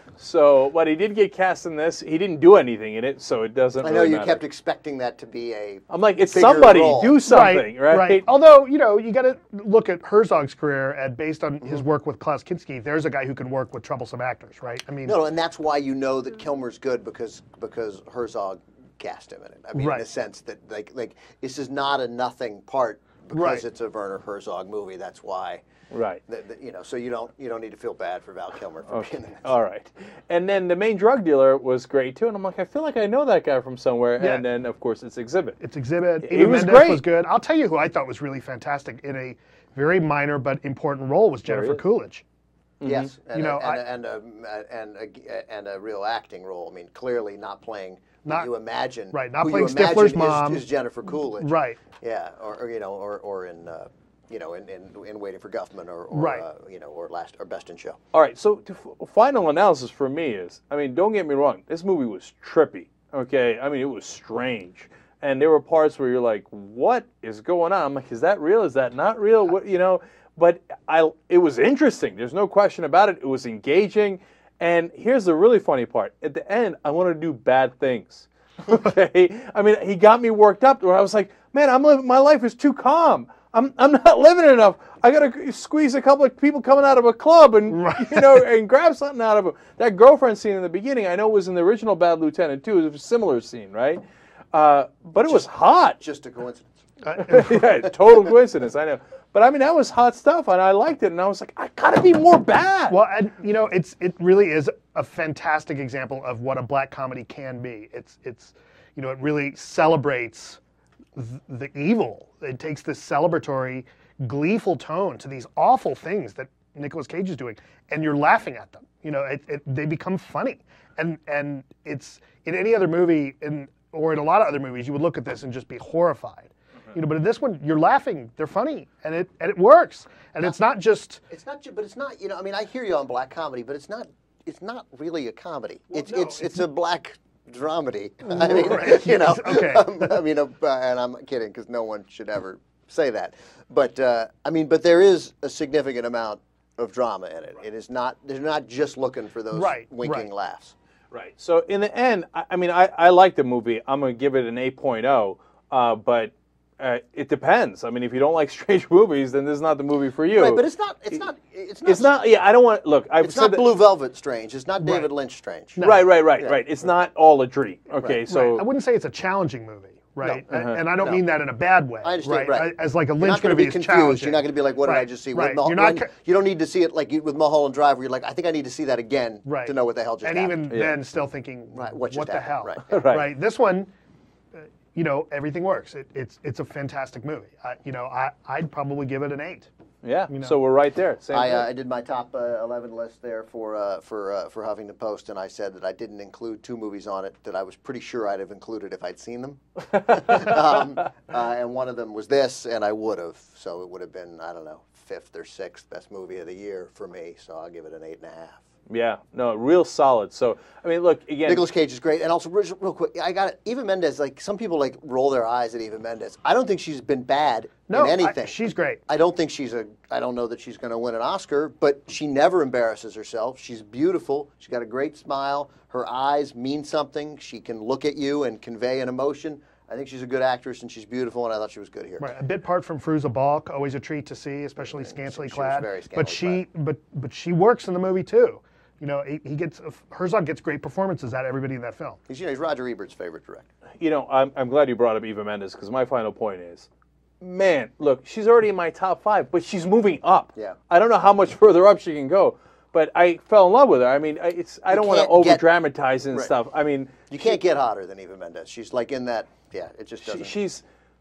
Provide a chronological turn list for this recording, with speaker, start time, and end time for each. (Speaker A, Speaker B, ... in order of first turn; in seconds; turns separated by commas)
Speaker A: 0.2-4.4, Speaker B: 3.8-7.2, Speaker A: 5.9-8.3, Speaker C: 7.3-15.2, Speaker B: 15.1-25.6, Speaker C: 19.8-20.1, Speaker C: 23.3-23.6, Speaker A: 25.9-26.2, Speaker B: 26.3-29.5, Speaker A: 28.9-35.6, Speaker C: 34.2-34.5, Speaker C: 35.6-42.2, Speaker A: 36.2-37.0, Speaker A: 41.5-41.8, Speaker A: 42.8-43.1, Speaker B: 42.8-58.0, Speaker C: 43.3-43.8, Speaker C: 48.2-48.5, Speaker C: 49.1-50.6, Speaker C: 51.4-51.8, Speaker C: 56.1-56.5, Speaker A: 58.1-94.0, Speaker C: 87.7-88.3, Speaker A: 94.5-96.0, Speaker B: 95.3-96.8, Speaker C: 97.0-97.7, Speaker A: 97.2-103.0, Speaker C: 102.9-110.6, Speaker C: 111.2-131.2, Speaker B: 131.3-150.8, Speaker C: 135.9-136.5, Speaker C: 138.3-140.0, Speaker C: 149.5-150.3, Speaker A: 151.1-160.7, Speaker B: 160.3-162.1, Speaker A: 161.8-163.7, Speaker B: 163.2-165.8, Speaker C: 164.8-165.1, Speaker C: 165.8-166.1, Speaker A: 165.8-168.6, Speaker C: 168.3-176.1, Speaker A: 170.4-170.8, Speaker B: 171.0-171.2, Speaker B: 172.0-180.6, Speaker C: 179.4-183.9, Speaker A: 180.7-181.0, Speaker B: 181.7-182.9, Speaker A: 182.9-183.3, Speaker C: 184.6-189.7, Speaker A: 190.0-191.7, Speaker C: 190.3-190.6, Speaker B: 191.3-208.6, Speaker A: 208.9-211.7, Speaker B: 211.5-232.3, Speaker C: 217.9-219.0, Speaker C: 232.2-242.2, Speaker B: 234.8-236.6, Speaker B: 242.3-243.7, Speaker A: 244.0-246.9, Speaker A: 247.4-257.5, Speaker B: 254.9-255.6, Speaker B: 257.3-260.6, Speaker A: 260.2-260.8